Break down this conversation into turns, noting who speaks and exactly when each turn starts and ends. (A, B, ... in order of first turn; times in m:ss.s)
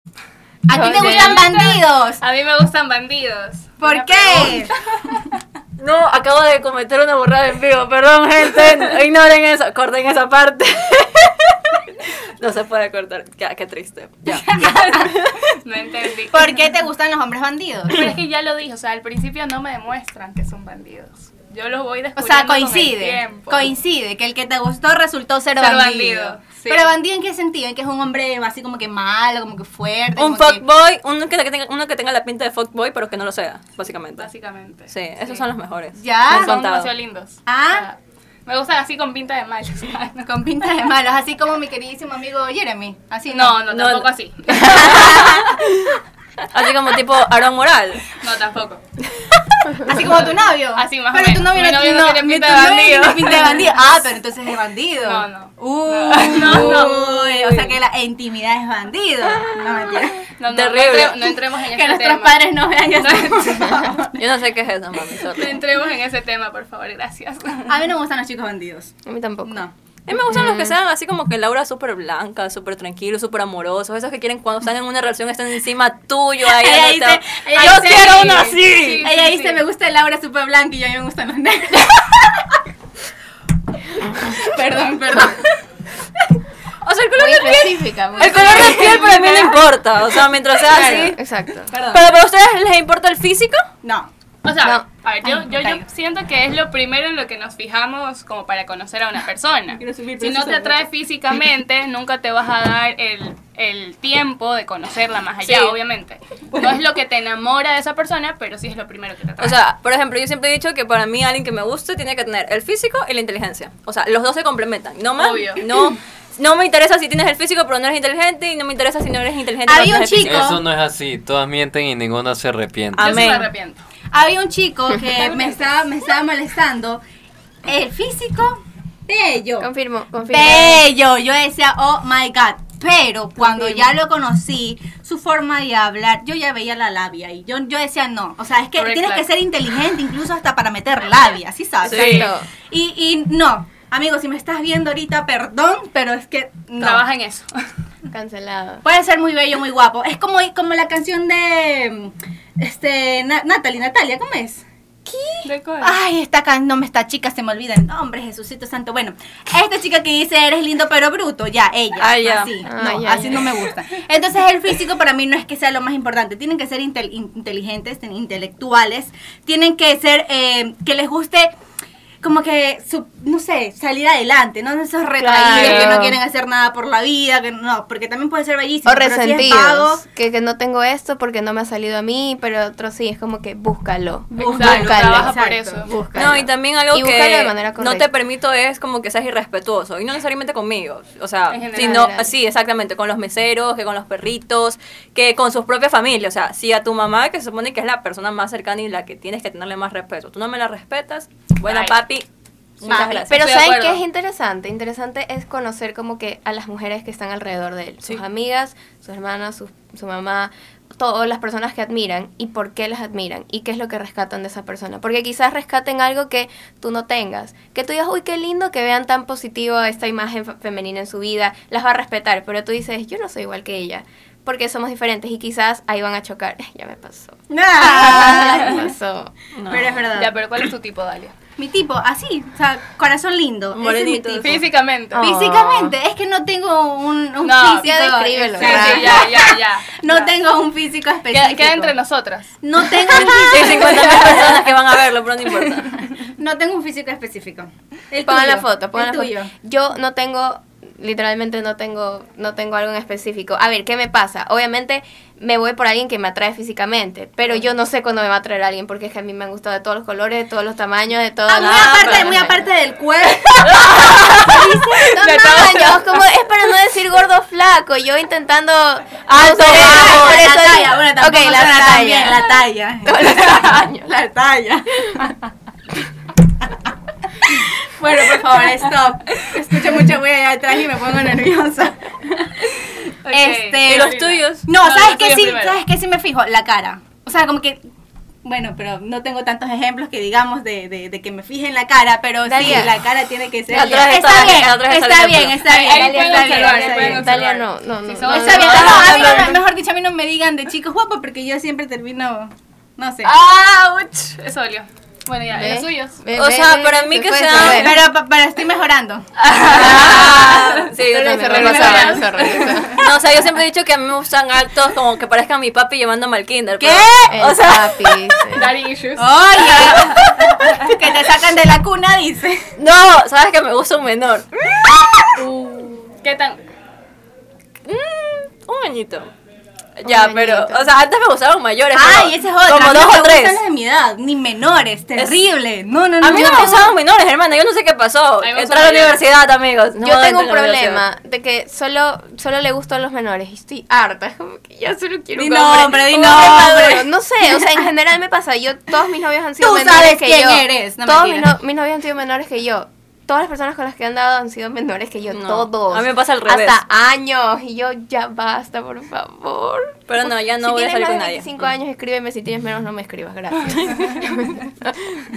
0:00.7-0:02.2 A
0:00.7-0:01.5 B
0:00.7-0:05.2 C
0:03.8-0:04.8 A
0:05.8-0:15.4 D
0:14.3-0:15.1 A
0:15.5-0:16.7 C
0:16.3-0:18.1 A
0:17.9-0:23.7 C
0:22.2-0:30.6 A
0:25.6-0:26.9 C
0:30.2-0:34.3 D
0:34.2-0:35.4 C
0:34.9-0:36.9 D
0:36.0-0:36.5 A
0:36.2-0:40.3 C
0:37.5-0:37.9 A
0:40.2-0:43.6 A
0:43.3-0:45.3 C
0:43.7-0:48.1 D
0:44.6-0:45.6 A
0:48.1-0:48.8 C
0:49.7-1:00.2 A
0:49.9-0:53.7 C
0:55.0-0:57.7 C
1:00.4-1:03.7 C
1:00.5-1:01.3 D
1:01.6-1:04.2 A
1:04.1-1:05.6 D
1:05.3-1:07.8 C
1:07.7-1:08.9 A
1:09.0-1:09.6 B
1:09.4-1:09.7 A
1:10.1-1:19.1 D
1:10.3-1:10.7 B
1:16.4-1:18.5 A
1:17.6-1:19.6 C
1:19.0-1:22.6 A
1:24.3-1:25.5 A
1:26.8-1:31.2 D
1:27.2-1:29.1 B
1:28.2-1:29.5 C
1:30.7-1:31.7 B
1:31.7-1:32.0 A
1:31.8-1:33.6 D
1:33.8-1:34.1 A
1:34.4-1:49.6 C
1:35.5-1:35.8 A
1:39.7-1:40.9 A
1:45.4-1:45.8 D
1:49.4-2:00.6 D
1:55.2-1:55.9 C
1:59.6-2:00.6 A
2:00.2-2:03.3 E
2:03.0-2:03.5 D
2:03.0-2:03.8 C
2:04.1-2:07.0 A
2:07.6-2:09.7 A
2:09.6-2:10.8 B
2:10.3-2:27.0 A
2:13.4-2:13.9 B
2:18.8-2:19.3 C
2:21.8-2:22.3 C
2:21.8-2:22.5 B
2:26.8-2:27.5 C
2:28.1-2:28.8 B
2:28.8-2:34.6 A
2:35.1-2:35.5 B
2:35.4-2:36.0 C
2:35.8-2:51.5 A
2:42.0-2:42.6 D
2:42.6-2:43.6 B
2:52.2-3:00.0 A
2:55.2-2:56.2 B
2:55.4-2:56.0 C
2:58.8-3:08.1 B
3:04.3-3:05.8 A
3:04.4-3:05.9 C
3:06.1-3:22.3 D
3:11.5-3:12.1 C
3:11.8-3:12.3 B
3:21.6-3:21.9 C
3:22.8-3:23.4 D
3:22.8-3:23.3 A
3:23.3-3:49.3 B
3:23.3-3:24.0 C
3:47.5-3:48.9 A
3:48.3-3:48.8 C
3:49.5-3:50.1 D
3:49.7-3:50.4 A
3:50.1-3:51.3 C
3:51.6-3:54.6 A
3:53.7-3:54.6 D
3:54.4-3:55.2 C
3:55.1-3:55.9 B
3:55.2-4:01.9 A
3:57.4-4:00.3 C
3:57.8-3:59.3 B
4:01.3-4:02.6 C
4:02.6-4:04.6 A
4:03.1-4:06.0 D
4:03.2-4:04.0 B
4:06.3-4:09.5 A
4:08.2-4:22.6 B
4:21.5-4:25.6 A
4:21.5-4:22.6 D
4:23.8-4:24.2 D
4:25.0-4:32.5 B
4:25.2-4:26.0 C
4:29.2-4:30.4 D
4:29.6-4:35.5 A
4:33.0-4:34.1 B
4:37.4-4:42.7 A
4:43.2-4:45.8 C
4:43.3-4:47.8 A
4:43.8-4:44.7 D
4:48.4-4:57.3 A
4:52.4-4:52.9 B
4:53.7-4:56.3 D
4:53.8-4:54.2 B
4:55.6-4:59.6 C
4:56.8-4:59.6 B
4:58.3-5:03.3 A
5:03.2-5:06.2 C
5:05.5-5:08.0 B
5:06.3-5:07.9 D
5:07.6-5:10.6 A
5:09.4-5:10.9 C
5:09.6-5:12.2 D
5:10.0-5:10.3 B
5:11.1-5:13.0 A
5:11.1-5:13.0 B
5:11.4-5:12.9 C
5:12.9-5:18.3 D
5:16.8-5:17.4 A
5:17.3-5:18.7 B
5:18.5-5:19.8 C
5:19.2-5:22.7 A
5:19.6-5:20.6 D
5:22.8-5:25.0 D
5:25.4-5:26.6 C
5:27.8-5:29.3 D
5:30.0-5:33.6 D
5:30.0-5:30.9 B
5:31.9-5:36.9 A
5:36.2-5:41.0 D
5:36.4-5:36.7 B
5:38.4-5:39.2 C
5:40.0-6:05.0 B
5:45.3-5:47.1 A
5:49.6-5:51.5 A
5:55.3-5:56.8 D
6:00.1-6:01.6 D